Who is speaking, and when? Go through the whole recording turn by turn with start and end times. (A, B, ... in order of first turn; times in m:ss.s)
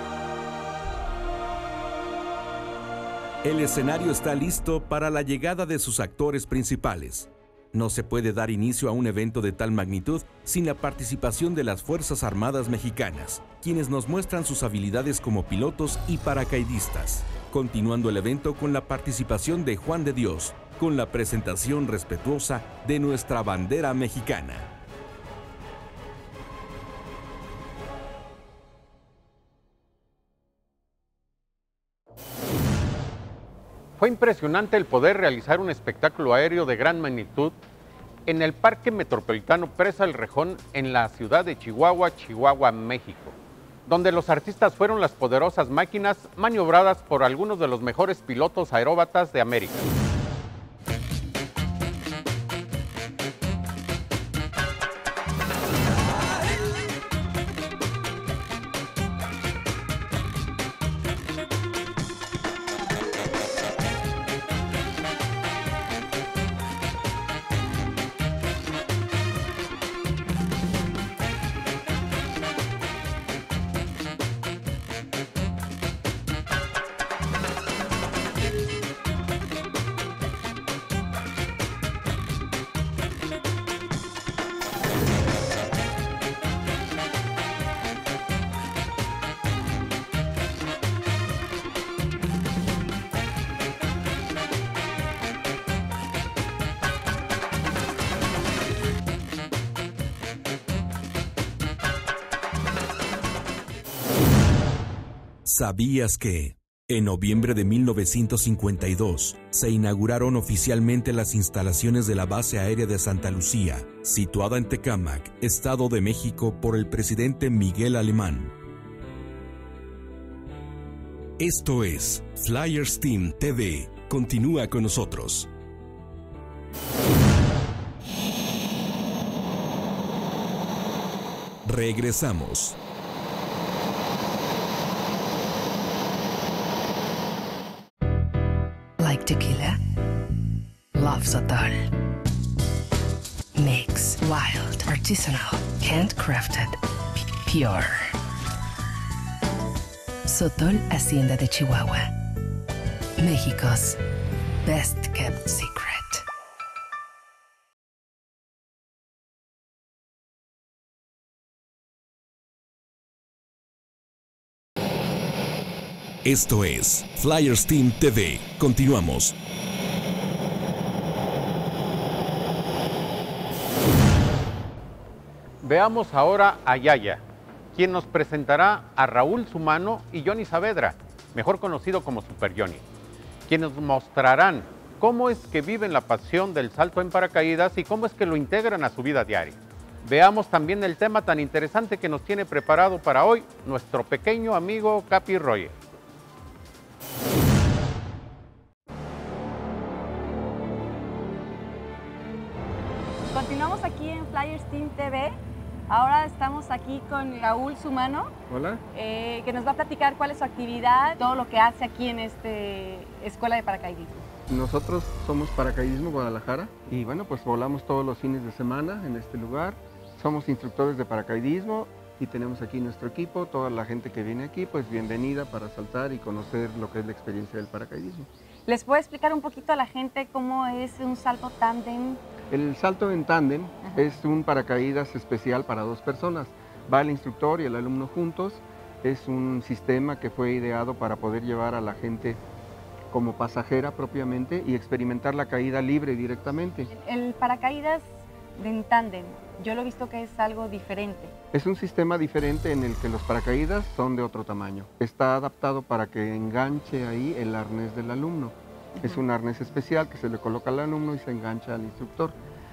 0:03.4-0:24.7 A
0:34.0-0:37.5 B
0:38.3-0:49.9 B
1:45.4-1:58.5 A
2:01.4-2:05.5 A
2:11.6-2:12.8 A
2:19.0-2:19.8 C
2:20.9-2:21.9 C
2:23.5-2:28.1 C
2:30.2-2:32.2 C
2:33.2-2:34.0 C
2:34.6-2:36.2 C
2:46.2-2:49.3 A
2:55.6-2:57.2 B
2:57.7-3:02.8 B
3:03.5-3:15.7 B
3:23.3-3:25.4 D
3:25.9-3:28.3 D
3:28.5-3:28.8 E
3:28.9-3:34.2 D
3:34.5-3:48.3 E
3:48.6-3:52.2 D
3:52.5-4:02.4 E
4:03.1-4:06.9 E
4:06.9-4:11.3 D
4:11.5-4:22.3 E
4:19.0-4:19.2 D